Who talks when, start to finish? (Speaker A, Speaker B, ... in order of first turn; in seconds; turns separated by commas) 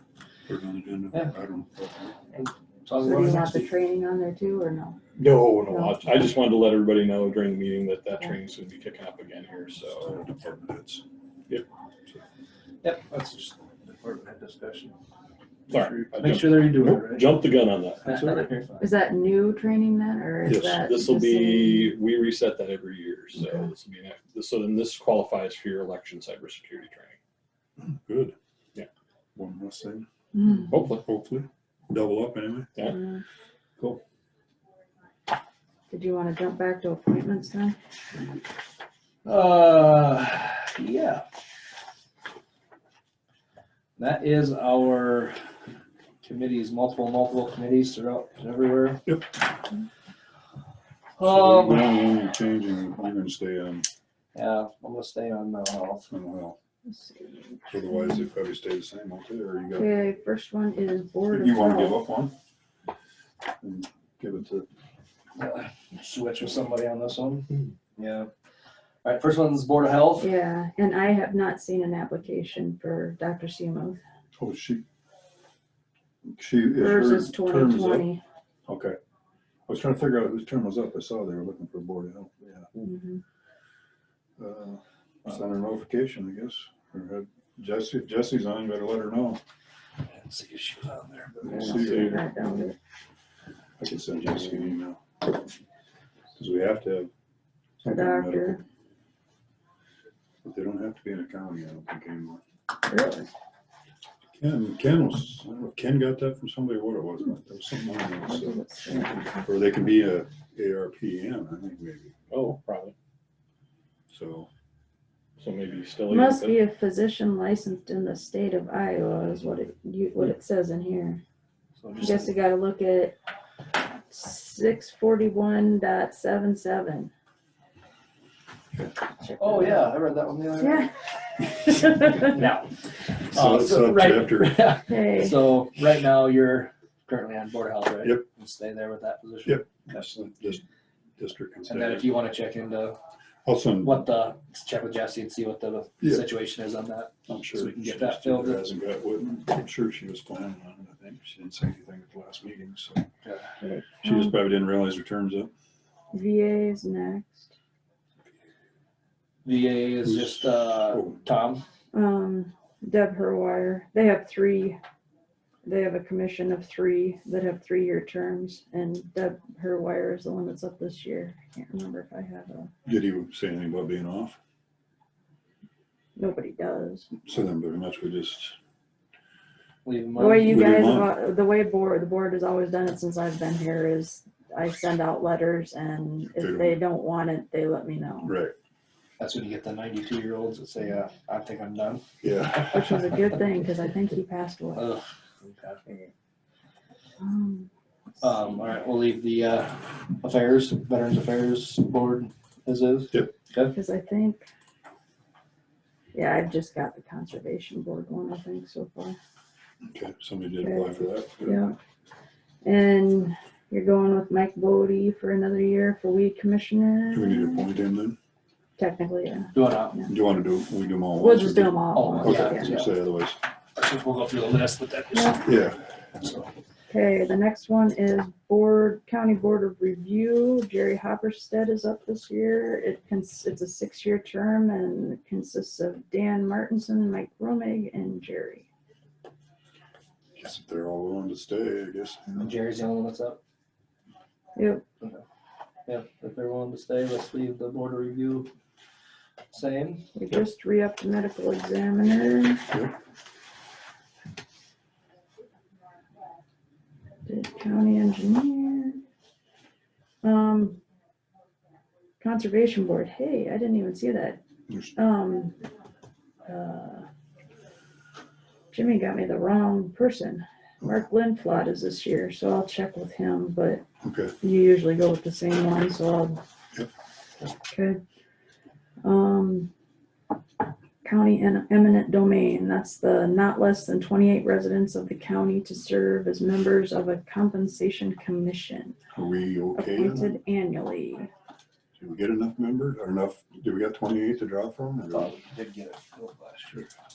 Speaker A: 0.5-2.2, Speaker B: 2.3-3.7, Speaker C: 3.0-5.0, Speaker D: 5.2-10.2, Speaker C: 5.7-6.0, Speaker A: 10.0-11.0, Speaker B: 12.8-14.9, Speaker D: 15.7-18.4, Speaker B: 15.7-17.4, Speaker B: 18.0-18.9, Speaker C: 18.8-21.9, Speaker A: 20.5-20.8, Speaker D: 20.5-27.2, Speaker A: 27.8-28.4, Speaker A: 29.4-30.1, Speaker C: 30.4-30.7, Speaker D: 30.6-31.0, Speaker A: 30.9-32.7, Speaker C: 32.9-33.2, Speaker C: 35.9-37.8, Speaker B: 39.2-41.2, Speaker B: 44.0-45.4, Speaker B: 46.2-49.0, Speaker B: 51.2-52.1, Speaker A: 51.2-53.9, Speaker B: 54.3-56.1, Speaker A: 56.1-56.6, Speaker C: 56.9-58.3, Speaker A: 57.7-59.9, Speaker C: 59.8-62.0, Speaker A: 61.3-62.4, Speaker A: 63.6-64.7, Speaker B: 65.4-68.3, Speaker B: 69.0-70.3, Speaker C: 70.2-74.0, Speaker A: 74.4-74.8, Speaker A: 76.3-78.1, Speaker C: 76.8-78.2, Speaker A: 78.7-79.0, Speaker A: 79.7-82.7, Speaker C: 82.8-83.2, Speaker A: 84.4-89.4, Speaker B: 90.1-91.6, Speaker A: 91.3-92.3, Speaker C: 91.5-92.7, Speaker D: 91.8-92.4, Speaker A: 93.8-95.3, Speaker A: 96.3-97.1, Speaker A: 97.8-98.6, Speaker C: 97.9-98.6, Speaker A: 100.4-102.4, Speaker C: 102.9-103.3, Speaker A: 104.4-108.6, Speaker C: 108.3-109.5, Speaker A: 109.4-112.1, Speaker D: 112.3-113.0, Speaker A: 114.1-114.5, Speaker D: 115.4-116.6, Speaker C: 116.1-121.2, Speaker B: 121.8-122.3, Speaker C: 122.0-123.2, Speaker C: 124.1-127.1, Speaker C: 129.2-129.9, Speaker B: 129.4-130.9, Speaker C: 130.6-132.3, Speaker B: 132.1-139.7, Speaker A: 133.3-134.8, Speaker C: 134.9-135.4, Speaker A: 139.5-140.6, Speaker A: 141.2-142.1, Speaker B: 141.7-143.0, Speaker A: 143.4-144.1, Speaker B: 143.8-148.7, Speaker A: 147.3-153.1, Speaker C: 153.6-154.3, Speaker A: 154.0-155.5, Speaker C: 156.1-157.5, Speaker B: 159.4-161.6, Speaker A: 160.0-161.2, Speaker C: 161.9-164.8, Speaker C: 165.7-172.7, Speaker A: 172.8-174.4, Speaker C: 176.2-177.1, Speaker A: 177.2-178.6, Speaker B: 179.8-180.7, Speaker C: 180.2-188.3, Speaker A: 180.4-181.1, Speaker A: 186.3-186.8, Speaker A: 188.2-188.6, Speaker B: 189.2-193.4, Speaker A: 192.2-192.8, Speaker C: 192.7-194.9, Speaker B: 194.8-196.0, Speaker C: 197.2-197.7, Speaker B: 198.2-203.8, Speaker C: 203.7-204.4, Speaker C: 206.1-209.2, Speaker A: 209.9-211.7, Speaker C: 210.6-211.8, Speaker C: 212.6-217.7, Speaker A: 217.1-218.2, Speaker C: 218.8-220.1, Speaker B: 219.5-220.1, Speaker A: 220.1-223.4, Speaker C: 221.2-222.7, Speaker B: 221.9-222.9, Speaker B: 223.8-225.7, Speaker C: 225.1-225.4, Speaker A: 225.4-225.8, Speaker B: 226.2-226.5, Speaker C: 226.9-238.7, Speaker A: 240.4-242.5, Speaker B: 242.4-243.4, Speaker C: 244.6-244.8, Speaker B: 245.9-248.5, Speaker B: 249.5-250.1, Speaker C: 250.2-252.7, Speaker C: 257.3-259.0, Speaker C: 260.2-260.8, Speaker C: 262.2-264.4, Speaker A: 264.7-264.9, Speaker C: 264.9-265.6, Speaker C: 266.4-267.1, Speaker C: 268.7-273.8, Speaker A: 274.0-274.3, Speaker C: 274.4-276.4, Speaker C: 277.7-278.0, Speaker C: 279.0-279.7, Speaker C: 281.0-289.0, Speaker A: 289.1-290.3, Speaker C: 289.8-291.3, Speaker A: 292.0-295.3, Speaker B: 295.1-296.9